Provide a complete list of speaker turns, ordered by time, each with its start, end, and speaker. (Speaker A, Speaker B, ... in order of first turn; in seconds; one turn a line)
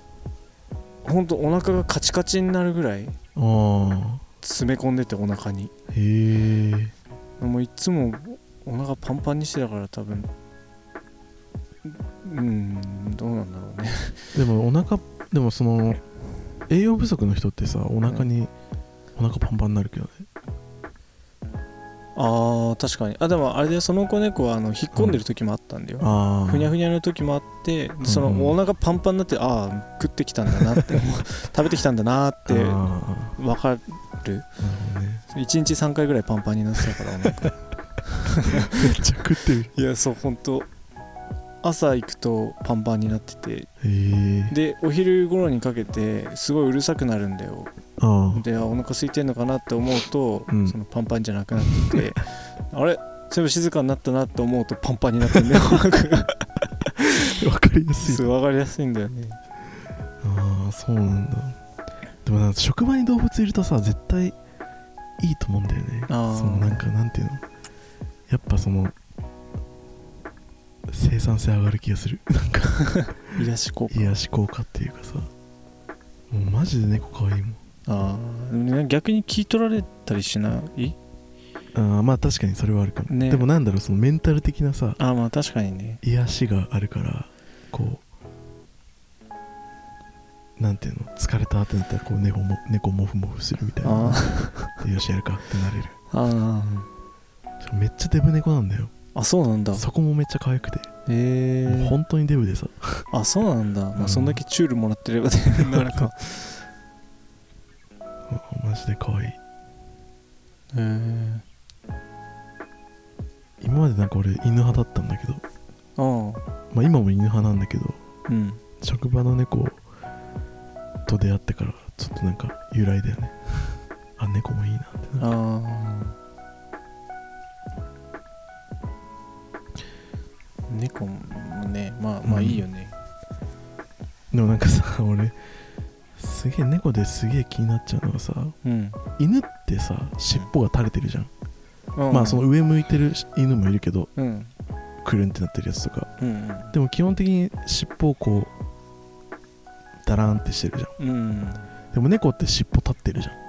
Speaker A: 1.0-3.2
Speaker B: 3.4-4.2
Speaker A: 4.4-5.7
Speaker B: 5.9-6.9
Speaker A: 7.4-10.3
Speaker A: 11.8-14.2
Speaker B: 14.3-16.0
Speaker B: 16.7-18.5
Speaker B: 19.1-20.3
Speaker A: 22.2-32.8
Speaker B: 24.9-25.2
Speaker B: 26.0-26.7
Speaker B: 28.0-28.6
Speaker B: 32.5-33.4
Speaker A: 33.4-34.5
Speaker B: 34.6-35.2
Speaker A: 35.3-37.6
Speaker A: 38.2-39.0
Speaker B: 38.7-39.7
Speaker A: 39.7-40.7
Speaker A: 41.6-43.7
Speaker B: 43.8-44.5
Speaker A: 44.5-47.7
Speaker B: 48.0-48.4
Speaker A: 48.3-56.5
Speaker B: 50.5-50.8
Speaker A: 57.0-57.3
Speaker B: 57.4-58.3
Speaker A: 58.0-59.4
Speaker B: 60.2-61.6
Speaker B: 62.2-64.4
Speaker B: 65.2-67.4
Speaker A: 66.1-66.8
Speaker B: 68.3-69.0
Speaker B: 70.9-73.4
Speaker A: 72.9-74.2
Speaker B: 73.9-75.3
Speaker B: 76.3-77.6
Speaker A: 77.9-81.0
Speaker B: 81.7-85.0
Speaker A: 83.1-83.5
Speaker A: 85.0-86.0
Speaker B: 86.0-88.0
Speaker B: 90.6-96.0
Speaker A: 93.8-94.7
Speaker A: 96.1-96.9
Speaker B: 97.6-98.9
Speaker A: 99.1-99.9
Speaker B: 99.7-100.9
Speaker A: 101.1-102.0
Speaker B: 101.7-103.1
Speaker A: 103.1-106.6
Speaker B: 104.0-104.4
Speaker B: 105.6-106.1
Speaker B: 108.3-109.4
Speaker A: 110.7-111.5
Speaker B: 113.6-115.4
Speaker A: 116.0-116.4
Speaker B: 116.7-118.0
Speaker A: 118.3-118.6
Speaker B: 118.8-119.8
Speaker B: 121.1-125.3
Speaker A: 125.2-126.2
Speaker A: 130.7-132.9
Speaker B: 132.2-132.7
Speaker B: 134.3-135.4
Speaker B: 136.2-138.6
Speaker A: 138.6-139.0
Speaker B: 139.2-141.3
Speaker A: 142.0-142.4
Speaker B: 142.1-144.1
Speaker A: 144.2-144.5
Speaker B: 145.0-146.1
Speaker A: 146.2-146.7
Speaker B: 146.7-148.5
Speaker B: 150.0-150.9
Speaker A: 151.0-151.7
Speaker B: 151.9-153.4